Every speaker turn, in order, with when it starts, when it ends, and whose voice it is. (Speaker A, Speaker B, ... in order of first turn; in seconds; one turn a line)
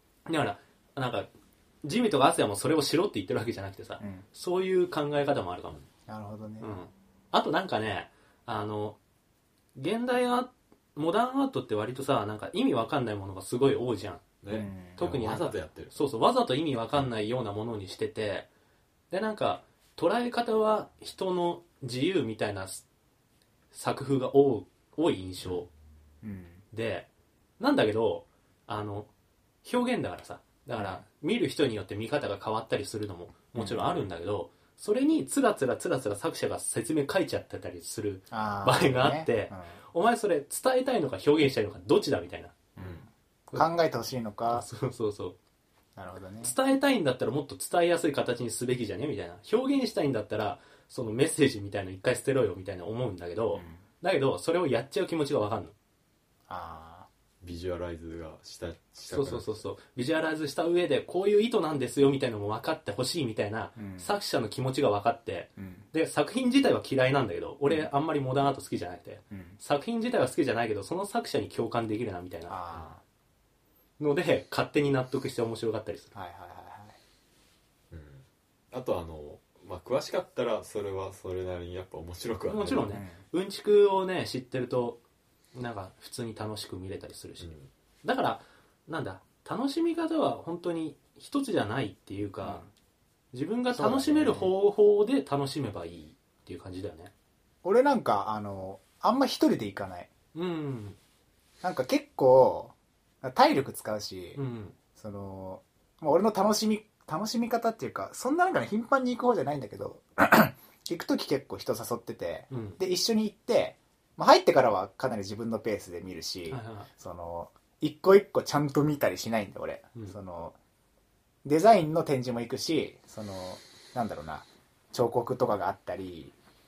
Speaker A: 0.3-1.3
Speaker A: 1.8-5.8
Speaker B: 4.0-4.2
Speaker B: 6.1-6.8
Speaker A: 6.6-9.0
Speaker A: 9.7-14.2
Speaker C: 14.4-15.9
Speaker B: 14.5-15.1
Speaker A: 15.0-18.5
Speaker A: 19.1-22.8
Speaker A: 23.7-25.7
Speaker B: 26.2-26.6
Speaker A: 26.7-27.1
Speaker A: 27.6-29.1
Speaker A: 29.6-42.5
Speaker B: 30.8-31.0
Speaker B: 33.5-33.9
Speaker B: 38.3-39.8
Speaker B: 42.8-44.6
Speaker A: 44.5-45.4
Speaker B: 46.0-46.5
Speaker A: 46.4-55.7
Speaker B: 53.5-53.8
Speaker B: 56.5-57.1
Speaker C: 57.4-59.6
Speaker A: 59.1-72.6
Speaker B: 63.8-64.1
Speaker B: 65.6-65.9
Speaker B: 69.3-69.6
Speaker B: 72.5-73.0
Speaker A: 74.0-76.1
Speaker B: 76.1-77.0
Speaker C: 77.9-82.9
Speaker A: 82.5-85.0
Speaker B: 82.9-83.2
Speaker A: 85.5-87.5
Speaker C: 87.4-87.7
Speaker A: 88.0-92.7
Speaker B: 92.4-92.7
Speaker A: 93.3-97.1
Speaker B: 93.7-94.5
Speaker B: 97.6-100.1
Speaker A: 100.3-101.0
Speaker B: 101.6-104.4
Speaker A: 104.4-104.8
Speaker B: 105.0-120.6
Speaker A: 112.5-112.8
Speaker A: 116.5-116.9
Speaker B: 121.4-126.3